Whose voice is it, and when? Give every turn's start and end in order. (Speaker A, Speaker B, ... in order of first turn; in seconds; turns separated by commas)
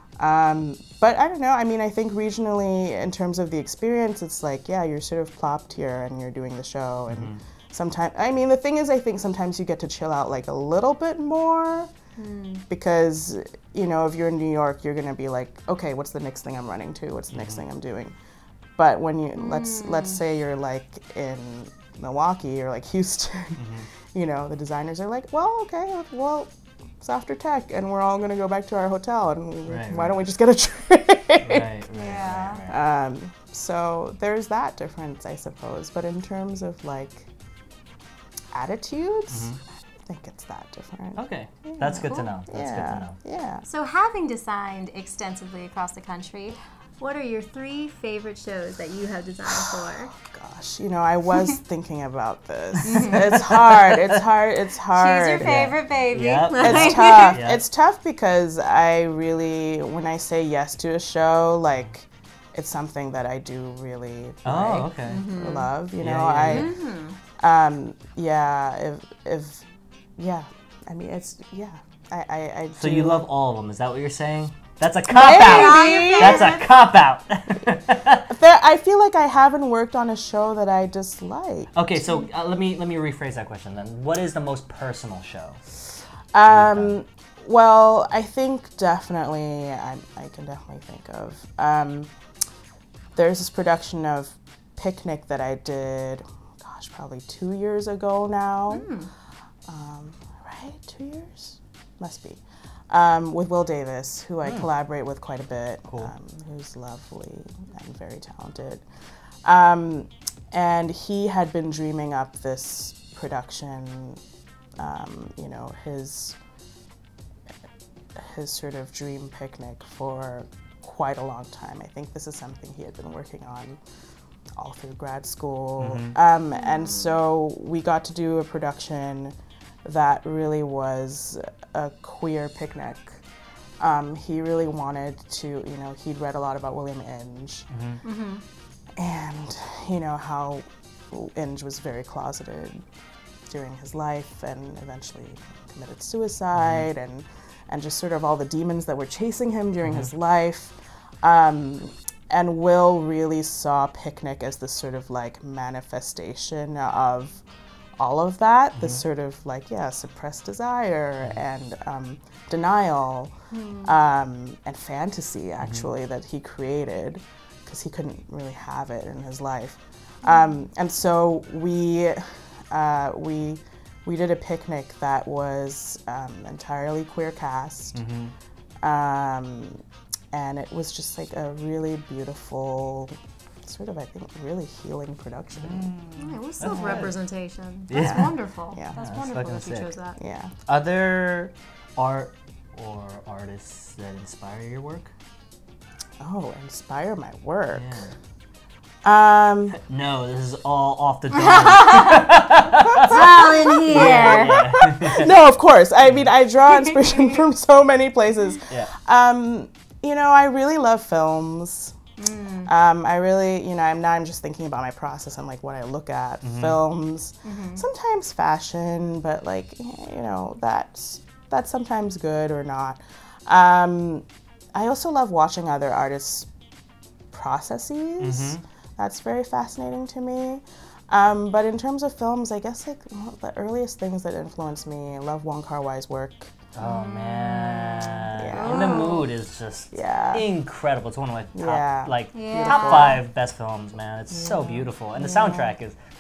Speaker A: 0.2-11.9, Speaker B: 7.1-7.4, Speaker C: 12.2-12.6, Speaker A: 12.7-18.1, Speaker B: 17.3-17.6, Speaker A: 18.8-31.9, Speaker C: 19.4-20.2, Speaker B: 23.6-23.9, Speaker B: 29.7-30.2, Speaker B: 31.4-32.8, Speaker C: 31.9-32.6, Speaker A: 32.7-37.3, Speaker A: 38.5-43.6, Speaker B: 39.3-39.6, Speaker B: 41.2-43.2, Speaker C: 42.0-42.3, Speaker C: 43.6-50.1, Speaker A: 49.5-55.8, Speaker C: 52.8-53.2, Speaker B: 53.3-54.2, Speaker C: 54.9-57.4, Speaker B: 55.4-57.6, Speaker A: 56.6-66.7, Speaker B: 64.5-65.4, Speaker C: 65.1-65.7, Speaker B: 66.0-66.7, Speaker C: 66.5-67.2, Speaker A: 67.4-69.6, Speaker A: 70.2-73.3, Speaker B: 72.8-78.3, Speaker A: 75.1-76.6, Speaker C: 75.2-76.7, Speaker A: 78.3-81.7, Speaker B: 81.7-85.6, Speaker A: 86.3-92.1, Speaker B: 86.5-87.0, Speaker A: 93.2-98.9, Speaker C: 98.7-99.1, Speaker A: 99.7-108.8, Speaker A: 109.4-114.2, Speaker A: 114.8-116.4, Speaker A: 118.2-123.8, Speaker A: 124.6-133.2, Speaker B: 125.8-126.2, Speaker C: 126.5-127.1, Speaker A: 133.8-137.7, Speaker B: 137.7-138.0, Speaker C: 138.0-138.4, Speaker A: 139.0-142.8, Speaker A: 143.5-157.4, Speaker B: 146.5-146.9, Speaker B: 149.8-150.1, Speaker A: 158.0-163.3, Speaker C: 163.5-163.9, Speaker A: 163.8-178.0, Speaker C: 170.2-170.6, Speaker B: 177.9-178.3, Speaker A: 178.8-185.9, Speaker B: 185.6-187.1, Speaker C: 186.2-190.2, Speaker A: 186.7-187.1, Speaker B: 187.9-188.4, Speaker A: 187.9-189.0, Speaker B: 189.0-189.9, Speaker A: 190.2-190.5, Speaker B: 190.7-195.1, Speaker A: 196.2-197.9, Speaker B: 197.8-198.2, Speaker A: 199.0-199.8, Speaker B: 199.7-205.3, Speaker C: 201.9-202.2, Speaker A: 202.9-211.9, Speaker C: 203.0-204.9, Speaker C: 206.7-207.2, Speaker C: 212.2-212.7, Speaker A: 212.7-226.5, Speaker B: 216.4-216.8, Speaker C: 217.4-217.8, Speaker A: 227.3-236.5, Speaker B: 228.2-228.6, Speaker B: 236.8-246.0, Speaker C: 236.8-239.3, Speaker A: 238.3-239.2, Speaker A: 239.9-240.5, Speaker A: 241.6-243.2, Speaker C: 242.3-243.2, Speaker A: 245.2-245.7